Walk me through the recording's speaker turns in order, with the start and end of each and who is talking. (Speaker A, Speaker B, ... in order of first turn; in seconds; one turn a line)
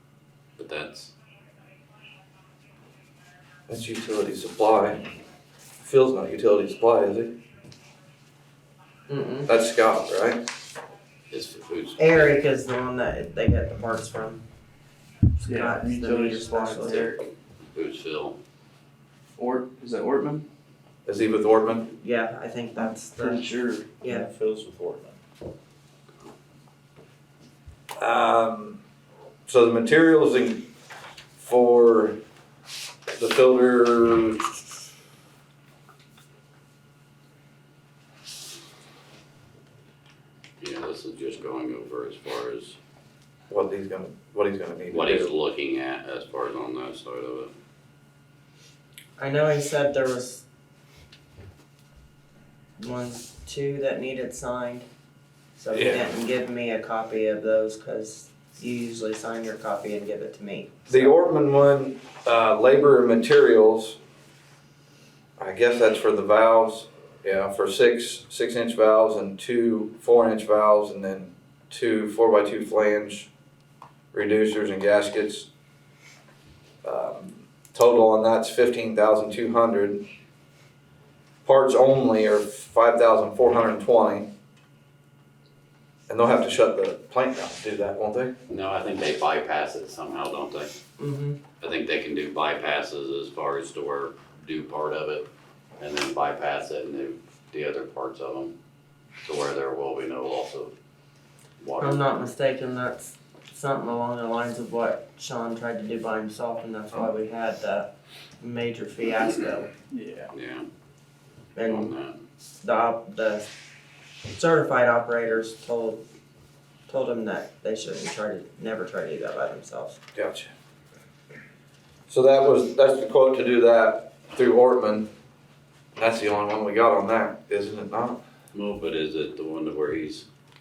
Speaker A: 0.6-1.1
Speaker B: 3.7-5.0
Speaker B: 5.8-7.3
Speaker C: 9.1-9.5
Speaker B: 9.5-10.4
Speaker A: 11.3-12.4
Speaker C: 12.0-14.4
Speaker C: 15.4-17.2
Speaker D: 15.4-17.1
Speaker A: 16.9-17.1
Speaker A: 17.7-18.4
Speaker D: 19.4-20.5
Speaker B: 21.1-21.9
Speaker C: 22.0-24.3
Speaker D: 22.8-25.1
Speaker B: 28.0-28.8
Speaker B: 29.5-30.6
Speaker B: 31.4-32.2
Speaker B: 33.2-34.4
Speaker A: 40.6-42.8
Speaker B: 43.5-45.3
Speaker A: 44.9-47.5
Speaker C: 49.2-50.5
Speaker C: 52.8-54.9
Speaker C: 55.6-61.1
Speaker B: 55.7-56.1
Speaker B: 60.9-64.0
Speaker B: 65.4-73.3
Speaker B: 74.1-75.5
Speaker B: 76.8-80.0
Speaker B: 81.5-84.3
Speaker B: 86.1-88.3
Speaker A: 88.5-90.7
Speaker C: 91.0-91.4
Speaker A: 91.6-95.3
Speaker A: 95.8-98.5
Speaker A: 99.2-100.7
Speaker A: 101.6-102.1
Speaker C: 101.8-107.9
Speaker C: 108.4-109.7
Speaker D: 109.9-110.3
Speaker A: 110.3-110.7
Speaker C: 111.6-111.9
Speaker A: 111.7-112.2
Speaker C: 112.6-113.5
Speaker C: 114.3-116.0
Speaker C: 116.9-120.0
Speaker B: 120.2-120.5
Speaker B: 122.1-125.1
Speaker B: 126.0-128.2
Speaker A: 128.5-130.3